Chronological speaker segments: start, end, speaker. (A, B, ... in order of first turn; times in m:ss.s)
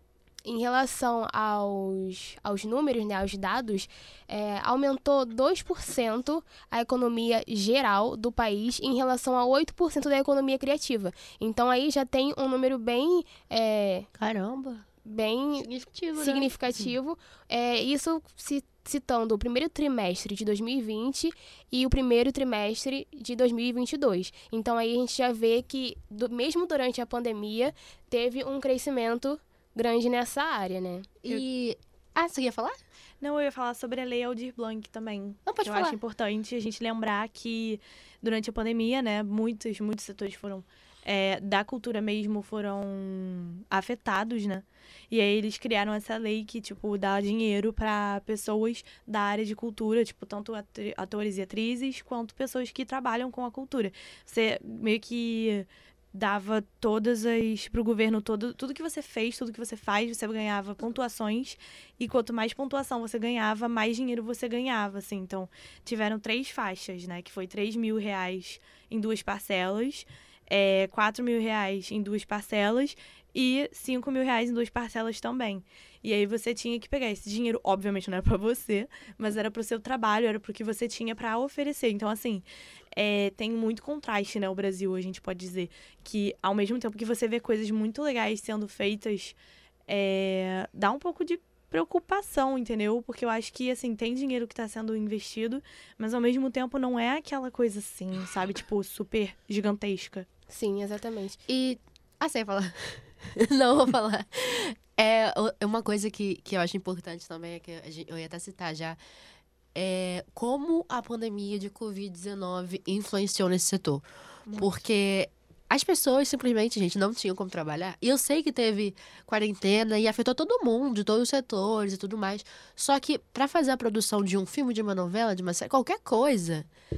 0:00.4-0:14.1 A
0:14.2-0:14.9 B
0:15.0-0:31.1 A
0:15.6-0:16.5 B
0:31.2-0:32.8 B
0:33.2-1:40.3 C
0:35.5-0:36.0 B
1:40.5-1:41.4 A
1:41.5-1:49.0 B
1:49.8-2:06.7 B
1:54.5-1:54.7 C